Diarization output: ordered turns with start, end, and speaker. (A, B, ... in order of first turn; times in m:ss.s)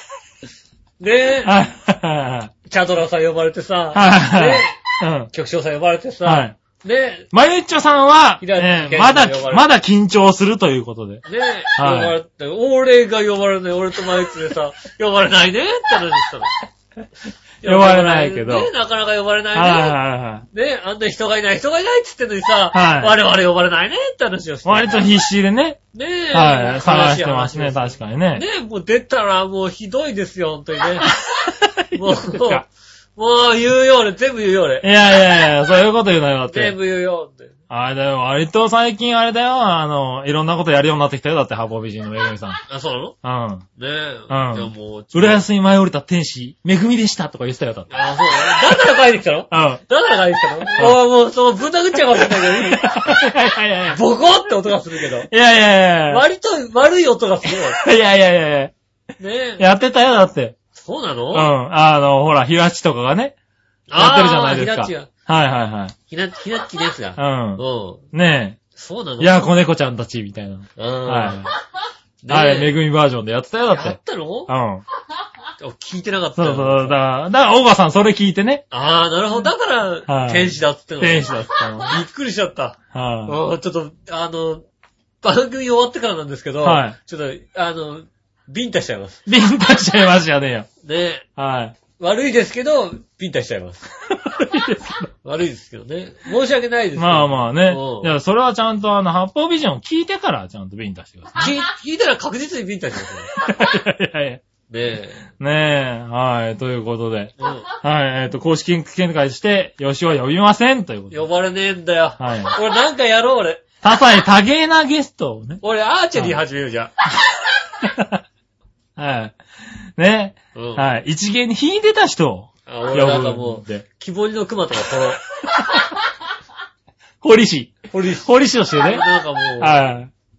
0:01.0-0:01.5 A
0:01.4-0:02.5 B
0:02.6-0:04.8 A
0:03.9-0:05.3 B
0:05.3-0:07.3 A
0:06.2-0:06.6 B
0:07.3-0:11.2 B
0:08.4-0:09.7 A
0:11.2-0:16.5 A
0:11.8-0:12.2 B
0:17.6-0:20.0 A
0:17.6-0:18.7 B
0:19.5-0:20.4 B
0:20.5-0:25.1 A
0:22.7-0:23.1 B
0:24.6-0:25.8 B
0:25.9-0:31.1 A
0:26.3-0:28.4 B
0:31.0-0:32.6 B
0:31.9-0:34.9 A
0:34.8-0:36.8 B
0:36.5-0:37.5 A
0:37.7-0:42.6 B
0:42.7-0:43.2 A
0:43.2-0:43.6 B
0:43.8-0:45.4 A
0:44.3-0:47.9 B
0:47.9-0:53.2 A
0:48.4-0:48.8 B
0:49.5-0:49.8 B
0:52.1-0:54.0 B
0:53.9-0:55.3 A
0:55.3-0:56.2 B
0:56.1-0:57.8 A
0:57.8-0:58.7 B
0:59.2-0:59.6 A
0:59.6-1:00.6 B
1:00.7-1:01.5 A
1:01.3-1:03.3 B
1:03.9-1:05.1 A
1:04.0-1:05.9 B
1:06.1-1:08.0 A
1:07.2-1:07.6 B
1:08.1-1:08.6 B
1:08.7-1:09.4 A
1:09.2-1:11.5 B
1:10.8-1:11.4 A
1:12.2-1:12.7 A
1:12.3-1:14.8 B
1:13.7-1:14.5 A
1:15.6-1:17.0 A
1:16.4-1:18.6 B
1:18.7-1:24.6 A
1:20.1-1:22.0 B
1:22.9-1:23.4 B
1:25.2-1:29.2 A
1:26.6-1:27.0 B
1:29.3-1:30.7 B
1:30.8-1:31.3 A
1:31.4-1:31.7 B
1:32.0-1:33.8 A
1:34.1-1:35.1 B
1:35.2-1:38.1 A
1:37.0-1:41.6 B
1:41.4-1:43.4 A
1:43.4-1:44.4 B
1:44.7-1:45.2 A
1:45.4-1:51.2 B
1:47.4-1:47.7 A
1:51.1-1:53.7 A
1:52.2-1:52.6 B
1:53.8-1:55.6 B
1:55.6-1:56.9 A
1:57.8-1:58.2 B
1:59.0-1:59.4 B
2:00.0-2:03.8 B
2:00.6-2:00.9 A
2:02.7-2:05.2 A
2:05.5-2:05.9 B
2:07.2-2:09.0 B
2:07.9-2:09.9 A
2:09.6-2:10.1 B